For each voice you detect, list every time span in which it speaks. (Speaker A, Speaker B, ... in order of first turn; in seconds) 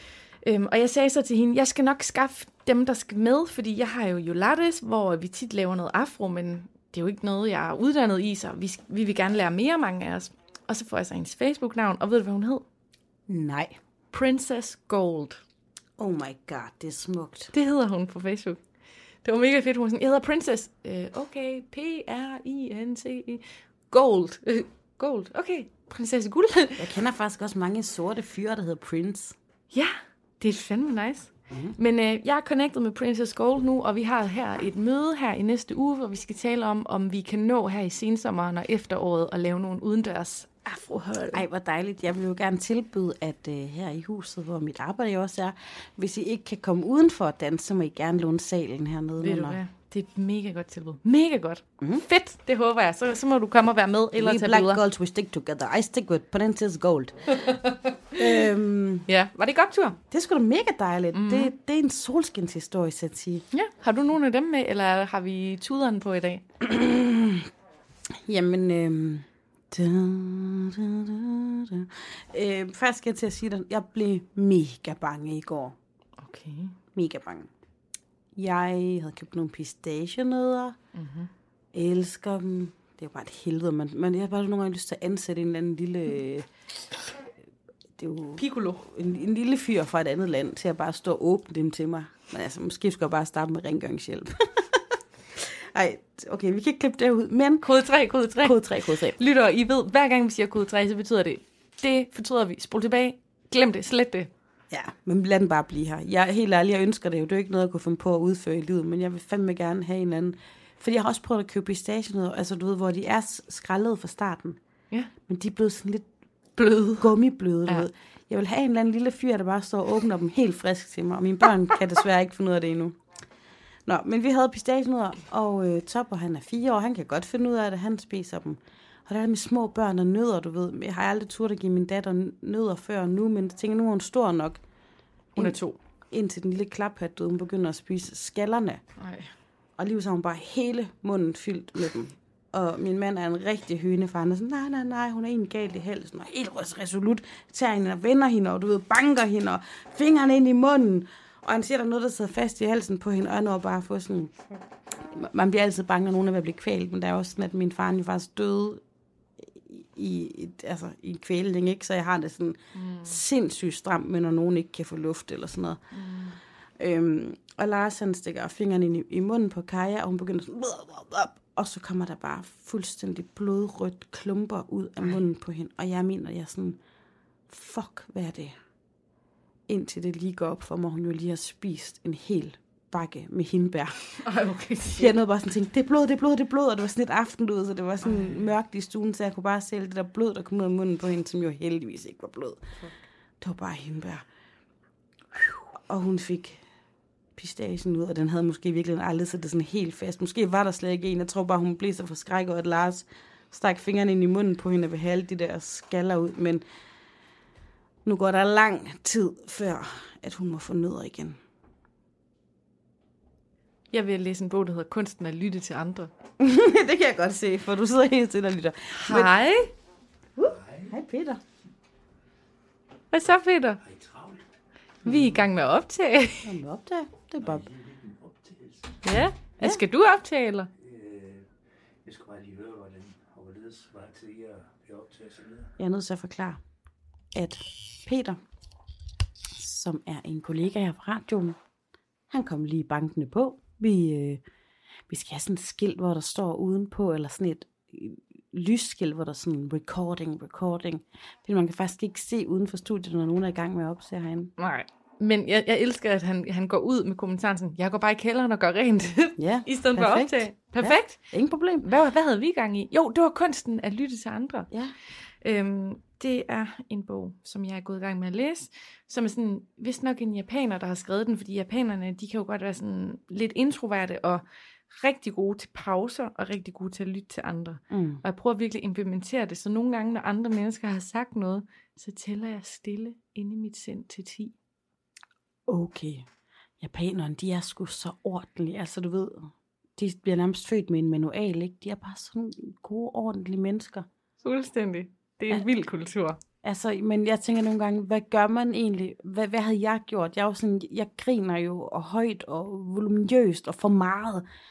Speaker A: 0.4-12.7, 14.1-15.4, 17.5-18.6, 19.2-26.9, 29.7-41.4, 49.2-54.8, 57.4-58.5, 59.1-60.0, 61.1-61.5, 63.5-66.4, 76.2-76.8, 81.0-81.3, 88.4-88.8, 97.6-104.3, 116.6-117.1, 135.4-135.8, 139.0-139.3, 162.8-163.2, 165.9-166.4, 184.2-185.2, 188.0-188.4, 213.9-216.1, 218.9-219.7, 223.1-223.8, 225.1-226.6, 229.0-230.7, 254.6-264.7, 265.4-284.6, 294.4-296.4
Speaker B: 13.3-13.8, 16.0-17.5, 26.8-29.4, 31.5-31.8, 41.3-49.6, 54.1-57.6, 58.1-59.1, 60.1-63.5, 66.6-67.5, 68.3-75.8, 76.9-77.5, 78.4-80.8, 81.7-86.5, 88.0-94.8, 95.4-97.7, 98.4-99.2, 104.7-114.6, 115.3-116.1, 117.0-123.0, 123.9-134.6, 136.1-138.8, 139.8-154.4, 155.1-158.8, 159.4-165.8, 166.8-176.8, 177.5-178.6, 179.7-184.1, 184.9-192.7, 193.4-194.2, 195.7-196.6, 197.4-206.6, 208.1-211.4, 216.4-219.3, 220.4-221.4, 226.4-227.7, 235.8-236.6, 237.3-238.4, 239.6-241.6, 242.3-244.4, 245.1-254.5, 259.4-261.9, 277.9-278.2, 285.7-286.3, 286.8-294.1, 296.6-304.4
Speaker C: 223.9-224.4, 227.5-229.0, 230.8-231.5, 232.0-235.7